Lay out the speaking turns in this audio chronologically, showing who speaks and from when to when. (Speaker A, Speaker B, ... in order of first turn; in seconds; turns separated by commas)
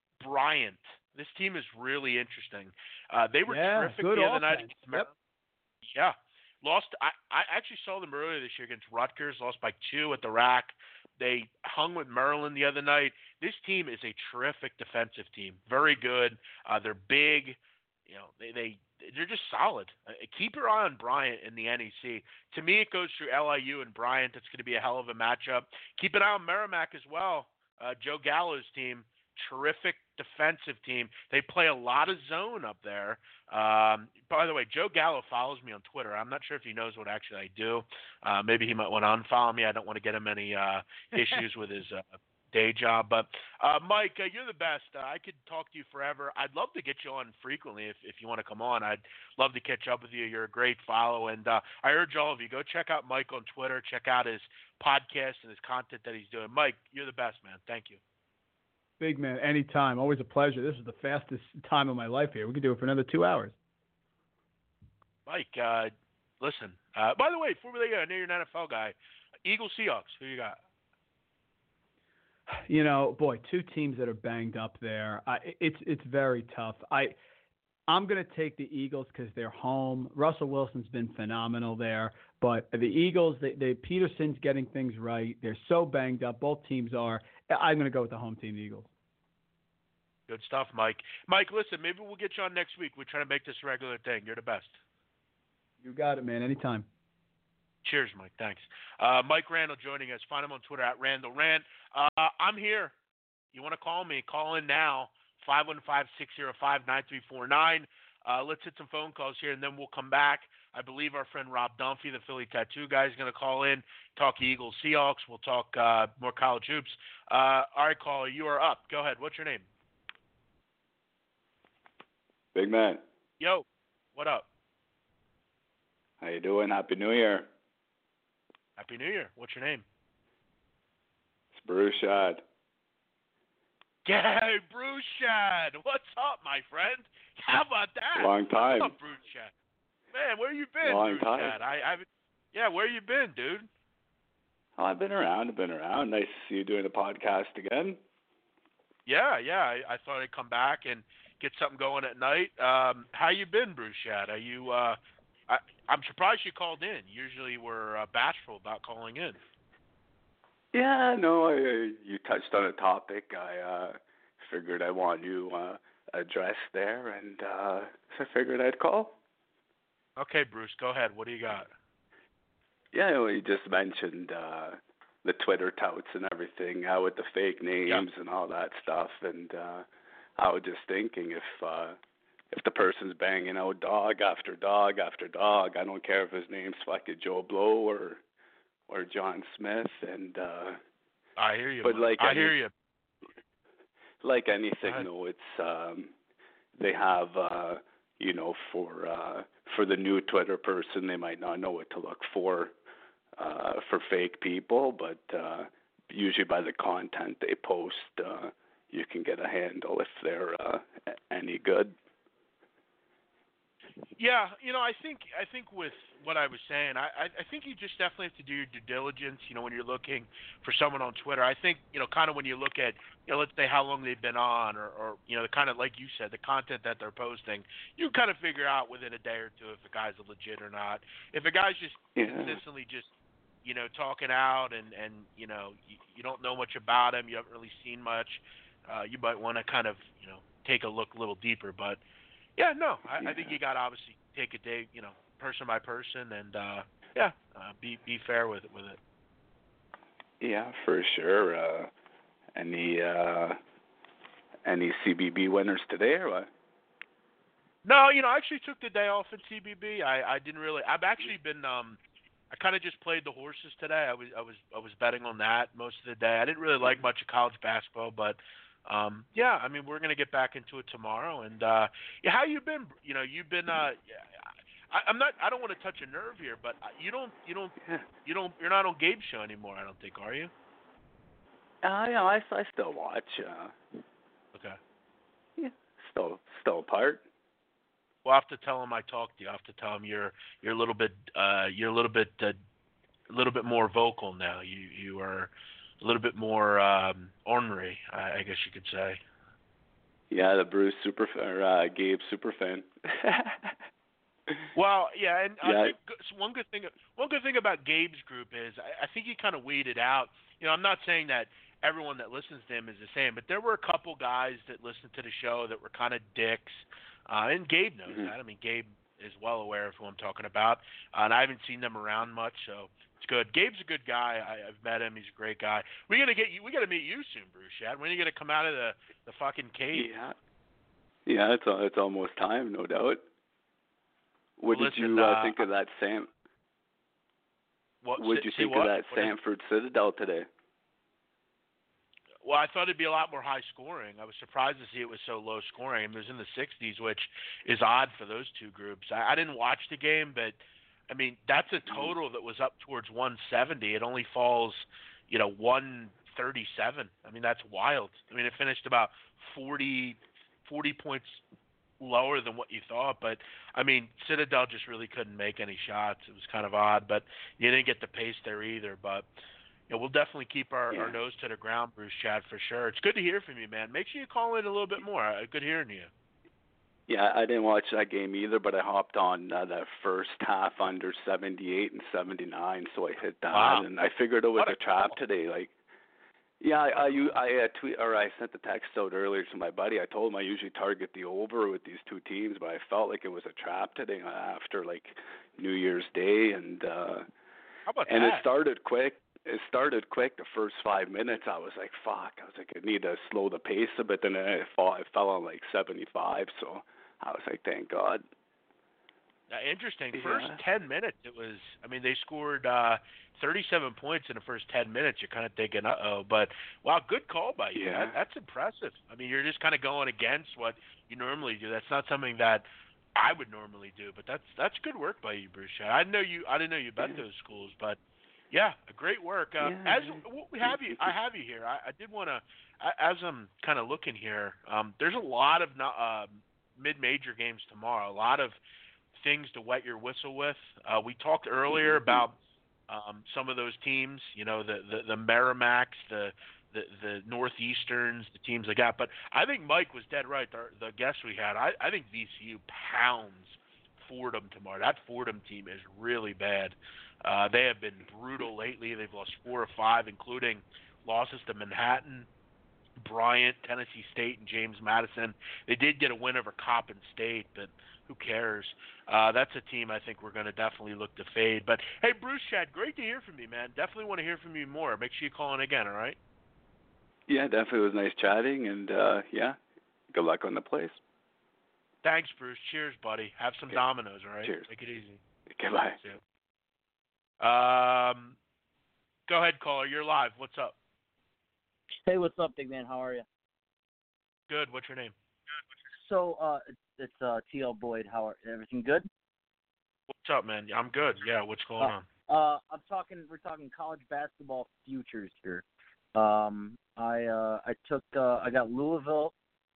Speaker A: 0.2-5.1, Speaker B: 3.5-5.1, Speaker A: 5.9-58.0, Speaker B: 59.0-63.5, Speaker A: 65.2-68.9, Speaker A: 69.4-70.6, Speaker B: 72.5-77.2, Speaker B: 77.9-88.9, Speaker A: 90.3-94.8, Speaker B: 95.8-96.8, Speaker A: 97.8-102.9, Speaker A: 103.5-119.7, Speaker C: 122.5-123.0, Speaker A: 123.4-124.5, Speaker C: 126.2-127.5, Speaker A: 128.8-129.8, Speaker C: 131.5-132.4, Speaker A: 134.0-139.5, Speaker C: 138.2-138.9, Speaker A: 140.1-143.7, Speaker C: 140.8-141.6, Speaker C: 144.8-148.0, Speaker A: 149.1-155.0, Speaker A: 155.5-159.4, Speaker C: 160.7-169.2, Speaker A: 170.2-171.7, Speaker C: 172.9-179.8, Speaker C: 180.4-182.0, Speaker C: 182.5-188.2, Speaker C: 188.9-190.8, Speaker A: 191.4-192.7, Speaker C: 191.8-192.6, Speaker C: 194.2-196.1, Speaker C: 196.8-202.7, Speaker C: 203.4-211.9, Speaker A: 214.2-233.1, Speaker C: 232.2-232.6, Speaker A: 233.6-242.0, Speaker A: 242.6-249.0, Speaker C: 243.2-243.6, Speaker C: 250.4-251.9, Speaker C: 252.5-253.6, Speaker C: 254.6-256.5, Speaker A: 257.8-262.0, Speaker A: 262.5-280.5, Speaker C: 277.8-278.1, Speaker C: 281.8-283.8, Speaker C: 285.6-287.2, Speaker A: 288.2-292.6, Speaker A: 293.3-299.2, Speaker C: 300.3-303.8, Speaker A: 304.7-330.1, Speaker C: 305.6-305.9, Speaker C: 318.1-318.3, Speaker C: 329.9-330.3, Speaker C: 331.2-333.2, Speaker C: 334.6-336.3, Speaker A: 334.7-335.6, Speaker A: 338.0-339.3, Speaker C: 338.2-340.5, Speaker A: 342.4-361.4, Speaker A: 362.0-369.2, Speaker A: 369.9-376.1, Speaker C: 370.9-371.2, Speaker C: 377.1-385.7, Speaker A: 383.5-383.9, Speaker A: 384.6-385.1, Speaker C: 386.6-397.2, Speaker A: 397.9-398.4, Speaker C: 398.1-408.2, Speaker A: 409.5-428.0, Speaker C: 410.1-410.6, Speaker C: 417.7-418.1, Speaker A: 428.5-438.6, Speaker C: 429.6-431.1, Speaker A: 439.1-442.3, Speaker C: 441.7-442.2, Speaker A: 442.9-462.3, Speaker A: 463.0-476.2, Speaker C: 477.3-479.6, Speaker C: 480.1-481.0, Speaker A: 482.0-485.2, Speaker C: 484.4-484.7, Speaker C: 485.5-486.0, Speaker A: 487.4-488.4, Speaker A: 489.3-490.7, Speaker D: 492.0-493.2, Speaker A: 494.5-495.1, Speaker D: 496.0-499.1, Speaker A: 500.2-502.0, Speaker D: 501.8-509.3